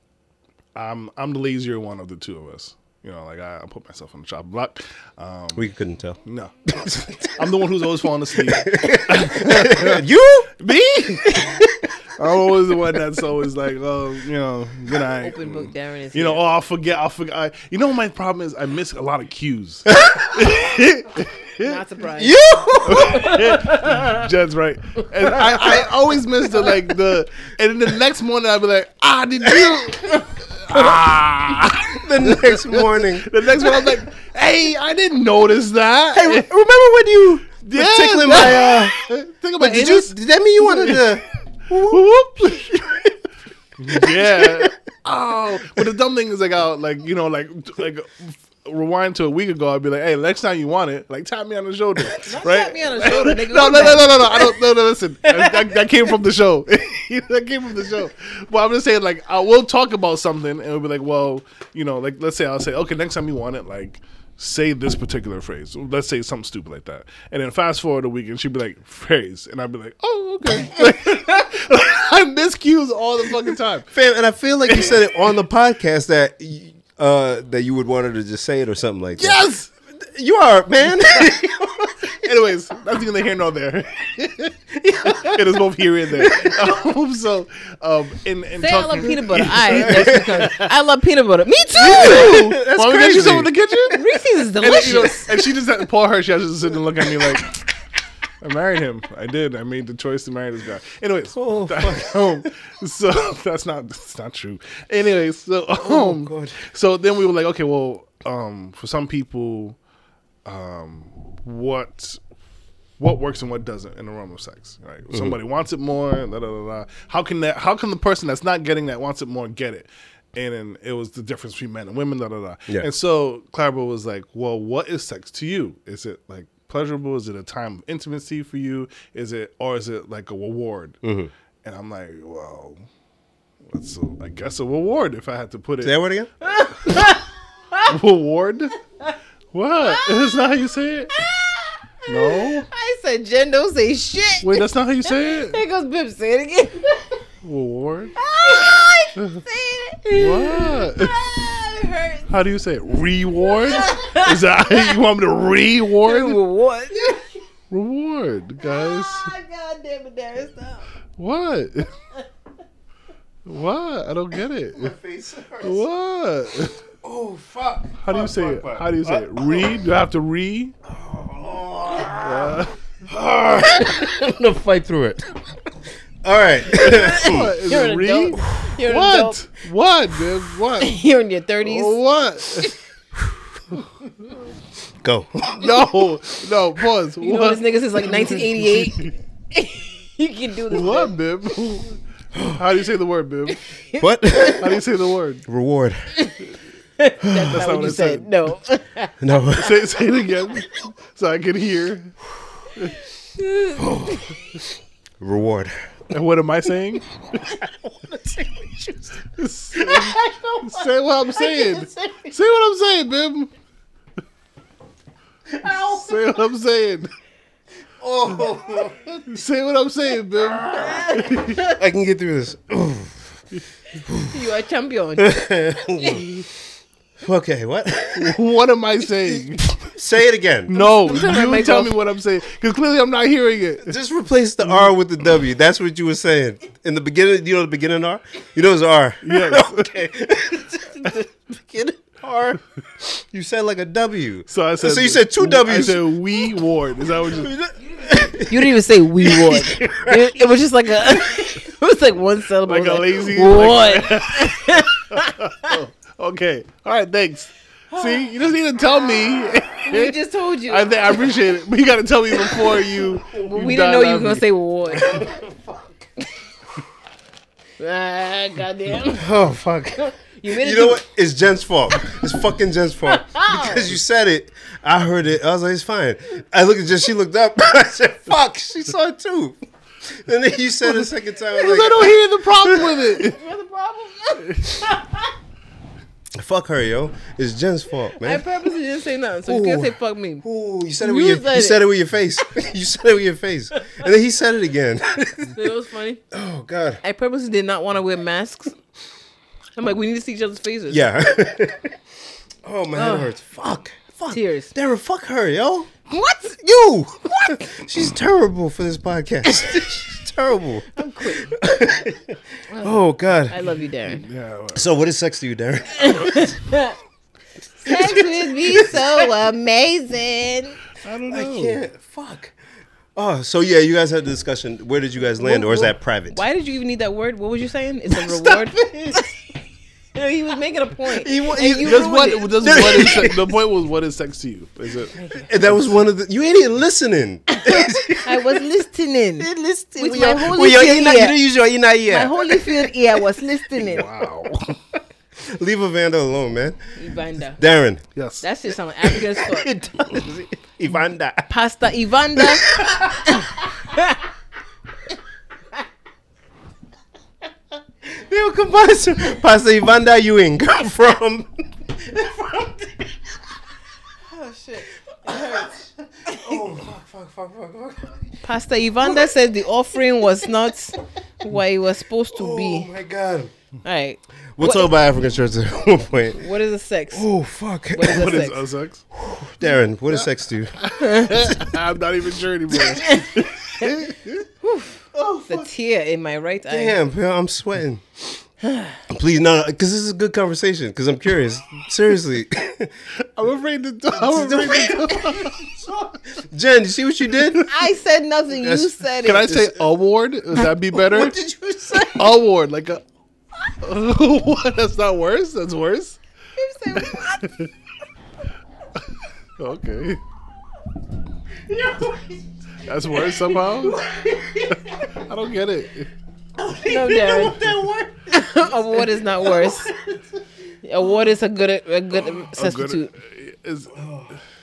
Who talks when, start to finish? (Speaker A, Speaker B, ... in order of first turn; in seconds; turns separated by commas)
Speaker A: 0.8-5.7, Speaker B: 5.5-7.5, Speaker A: 6.2-10.1, Speaker B: 8.3-10.5, Speaker A: 10.6-21.8, Speaker B: 11.4-11.7, Speaker C: 15.1-16.4, Speaker B: 19.9-20.5, Speaker C: 21.6-22.4, Speaker B: 22.1-23.8, Speaker A: 22.9-36.5, Speaker C: 23.0-23.3, Speaker B: 31.9-33.3, Speaker B: 36.1-39.0, Speaker A: 37.6-43.0, Speaker B: 39.6-42.1, Speaker B: 42.7-43.1, Speaker A: 43.8-73.9, Speaker B: 43.9-44.7, Speaker C: 52.2-54.6, Speaker C: 55.4-55.7, Speaker B: 73.9-79.4, Speaker A: 74.7-75.0, Speaker A: 79.2-79.7, Speaker B: 80.0-82.2, Speaker A: 82.1-84.6, Speaker B: 84.8-85.6, Speaker A: 85.1-90.7, Speaker B: 86.2-86.8, Speaker C: 88.6-92.4, Speaker B: 89.7-90.5, Speaker B: 91.8-93.5, Speaker A: 91.8-97.7, Speaker C: 93.9-95.5, Speaker A: 98.4-109.8, Speaker B: 101.3-102.5, Speaker B: 105.8-106.6, Speaker A: 110.5-112.2, Speaker A: 113.0-131.0, Speaker B: 115.1-115.4, Speaker B: 131.0-131.3, Speaker A: 131.6-132.8, Speaker A: 133.7-136.0, Speaker B: 135.8-136.3, Speaker C: 136.4-137.9, Speaker A: 137.9-138.8, Speaker A: 139.5-141.1, Speaker C: 139.8-140.2, Speaker C: 141.1-147.1, Speaker A: 142.1-142.7, Speaker A: 144.4-145.6, Speaker A: 147.4-148.2, Speaker C: 148.2-152.3, Speaker A: 149.2-149.4, Speaker A: 150.2-151.2, Speaker A: 152.3-156.4, Speaker C: 153.5-155.0, Speaker C: 156.0-157.2, Speaker A: 157.7-159.3, Speaker C: 158.6-160.9, Speaker A: 161.2-161.9, Speaker A: 163.5-164.9, Speaker B: 164.7-165.8, Speaker A: 165.6-166.8, Speaker B: 167.0-169.7, Speaker A: 168.0-170.8, Speaker B: 170.9-175.4, Speaker A: 172.2-172.7, Speaker B: 176.2-177.5, Speaker C: 176.7-179.4, Speaker A: 176.8-181.0, Speaker C: 180.8-182.0, Speaker A: 181.6-182.7, Speaker B: 185.0-186.0, Speaker A: 185.6-189.1, Speaker C: 187.2-191.2, Speaker A: 190.7-193.6, Speaker B: 192.3-192.6, Speaker C: 193.9-194.5, Speaker B: 194.0-194.8, Speaker A: 194.6-195.4, Speaker B: 195.5-196.0, Speaker C: 197.0-199.1, Speaker B: 197.2-197.6, Speaker A: 197.5-198.4, Speaker B: 199.2-199.9, Speaker A: 199.6-202.2, Speaker C: 203.4-204.2, Speaker B: 203.8-204.6, Speaker B: 205.2-205.9, Speaker A: 206.1-207.5, Speaker B: 207.5-212.3, Speaker A: 209.4-213.5, Speaker B: 215.6-216.2, Speaker A: 215.7-217.1, Speaker B: 218.0-219.2, Speaker A: 219.3-221.6, Speaker B: 220.6-223.3, Speaker B: 224.1-224.3, Speaker C: 224.3-225.4, Speaker B: 225.2-226.5, Speaker C: 226.0-226.2, Speaker B: 227.2-228.4, Speaker A: 228.2-229.8, Speaker B: 229.3-230.8, Speaker A: 230.7-234.0, Speaker C: 230.7-231.9, Speaker B: 233.8-246.5, Speaker A: 239.2-239.9, Speaker A: 244.5-247.5, Speaker B: 247.3-250.4, Speaker C: 248.3-255.8, Speaker A: 252.7-264.4, Speaker C: 257.9-258.2, Speaker C: 259.9-261.3, Speaker C: 262.4-265.4, Speaker B: 265.0-265.9, Speaker C: 267.8-269.3, Speaker B: 269.1-283.2, Speaker C: 270.0-271.0, Speaker C: 273.1-273.9, Speaker A: 280.9-283.4, Speaker C: 283.2-285.3, Speaker B: 286.4-288.4, Speaker C: 288.2-290.4, Speaker B: 289.5-295.7, Speaker C: 291.0-291.8, Speaker C: 295.5-296.2, Speaker B: 296.3-297.0, Speaker C: 297.0-298.7, Speaker C: 299.8-301.1, Speaker B: 300.9-302.0, Speaker B: 302.6-305.9, Speaker C: 302.9-303.3, Speaker C: 304.3-304.7, Speaker C: 306.1-306.6, Speaker B: 306.6-313.6, Speaker C: 310.9-311.6, Speaker C: 312.7-313.0, Speaker C: 313.5-314.2, Speaker A: 314.1-314.9, Speaker B: 314.8-316.6, Speaker C: 316.0-317.0, Speaker C: 317.8-320.8, Speaker B: 317.9-319.3, Speaker A: 321.0-321.8, Speaker B: 321.3-322.6, Speaker B: 323.2-326.4, Speaker C: 325.4-329.4, Speaker B: 328.1-329.2, Speaker C: 330.1-332.8, Speaker B: 331.1-333.5, Speaker A: 331.8-335.2, Speaker C: 335.1-335.5, Speaker B: 335.4-338.6, Speaker C: 337.5-341.4, Speaker B: 339.4-342.9, Speaker C: 342.1-344.1, Speaker A: 343.8-344.8, Speaker B: 345.4-346.8, Speaker C: 347.0-347.6, Speaker B: 347.6-348.0, Speaker A: 348.1-348.4, Speaker C: 348.4-349.7, Speaker B: 349.0-351.5, Speaker C: 351.5-354.2, Speaker B: 352.4-353.5, Speaker B: 358.0-363.4, Speaker C: 364.3-365.7, Speaker B: 365.2-368.2, Speaker C: 366.3-366.6, Speaker C: 368.4-372.9, Speaker B: 369.0-369.3, Speaker B: 372.3-373.5, Speaker C: 373.8-374.9, Speaker B: 374.6-376.4, Speaker C: 376.4-377.3, Speaker B: 377.1-378.5, Speaker C: 377.9-378.6, Speaker A: 378.0-379.1, Speaker B: 379.1-380.8, Speaker A: 380.1-384.4, Speaker C: 381.0-381.4, Speaker C: 382.9-383.9, Speaker C: 384.6-387.0, Speaker B: 385.1-385.7, Speaker B: 386.7-388.4, Speaker C: 388.6-389.0, Speaker B: 389.1-392.9, Speaker A: 393.2-395.7, Speaker B: 394.1-397.7, Speaker C: 397.6-399.7, Speaker B: 398.6-399.0, Speaker A: 399.2-401.4, Speaker B: 401.1-402.4, Speaker A: 402.1-403.0, Speaker A: 403.8-406.2, Speaker C: 406.6-407.5, Speaker A: 407.0-407.7, Speaker A: 409.6-410.2, Speaker B: 411.7-412.4, Speaker A: 412.9-414.0, Speaker B: 413.3-415.2, Speaker A: 414.9-416.1, Speaker B: 416.6-420.2, Speaker C: 416.9-417.6, Speaker C: 418.3-419.9, Speaker C: 420.8-423.1, Speaker A: 422.5-424.0, Speaker B: 424.0-424.3